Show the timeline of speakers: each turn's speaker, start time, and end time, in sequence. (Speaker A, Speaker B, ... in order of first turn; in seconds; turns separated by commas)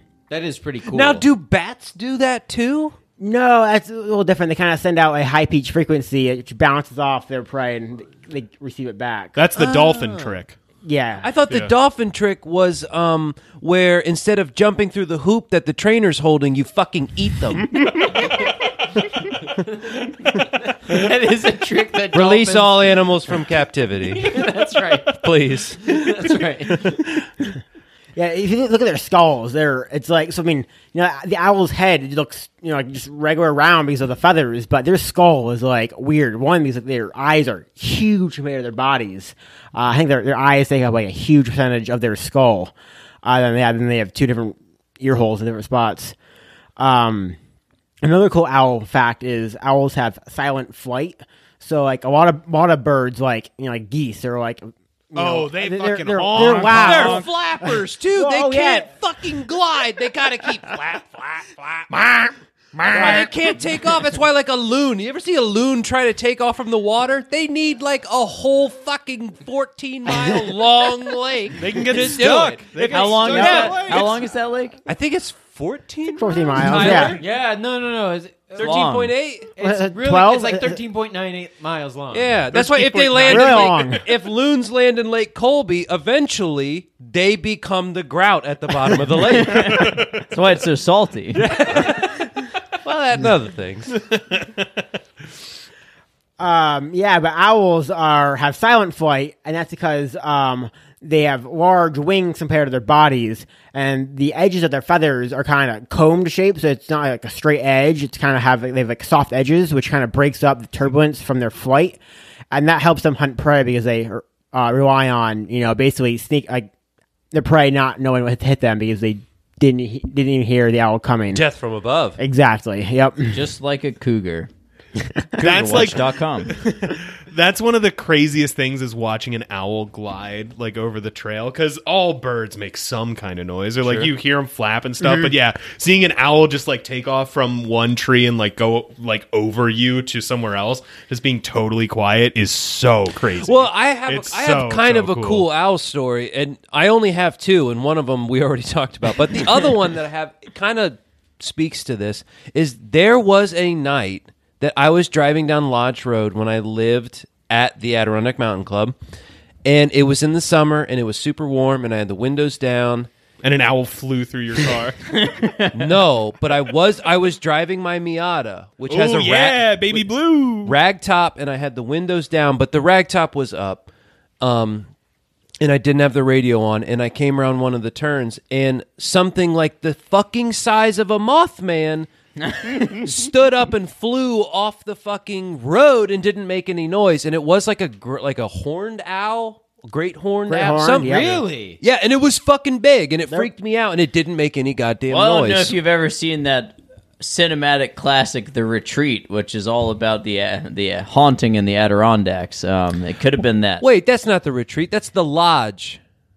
Speaker A: 0.3-1.3, Speaker B: 0.9-2.9, Speaker C: 3.2-9.4, Speaker D: 9.3-10.6, Speaker B: 9.6-10.4, Speaker C: 10.8-11.3, Speaker B: 11.2-18.2, Speaker A: 19.6-23.0, Speaker B: 22.1-26.2, Speaker A: 24.1-25.3, Speaker A: 25.8-27.0, Speaker C: 28.1-42.7, Speaker C: 43.2-46.1, Speaker C: 46.8-47.4, Speaker C: 48.0-58.9, Speaker D: 55.1-57.2, Speaker B: 56.3-61.9, Speaker D: 61.9-63.2, Speaker B: 62.9-74.0, Speaker C: 62.9-63.3, Speaker D: 71.6-74.2, Speaker A: 71.9-74.1, Speaker E: 72.9-74.8, Speaker B: 74.8-77.2, Speaker C: 76.2-77.2, Speaker A: 76.7-78.9, Speaker B: 78.5-79.5, Speaker E: 78.6-79.1, Speaker A: 79.6-82.4, Speaker C: 79.6-80.8, Speaker B: 82.1-90.0, Speaker D: 82.5-84.0, Speaker C: 83.3-84.0, Speaker E: 89.3-91.5, Speaker D: 89.5-90.2, Speaker B: 91.3-94.0, Speaker D: 94.1-94.6, Speaker C: 96.4-112.0, Speaker C: 112.5-116.7, Speaker C: 117.3-121.4, Speaker B: 121.3-122.2, Speaker C: 122.2-123.4, Speaker E: 123.3-124.5, Speaker C: 125.4-125.8, Speaker E: 125.4-126.5, Speaker D: 125.4-145.4, Speaker B: 143.4-158.9, Speaker B: 159.6-163.1, Speaker D: 163.4-165.0, Speaker E: 165.1-165.8, Speaker B: 165.7-170.1, Speaker D: 168.9-170.8, Speaker B: 170.6-173.8, Speaker B: 174.4-174.9, Speaker B: 175.6-182.1, Speaker E: 182.4-182.8, Speaker B: 182.8-195.8, Speaker C: 190.5-191.4, Speaker A: 190.9-191.8, Speaker E: 195.1-203.8, Speaker B: 203.8-206.0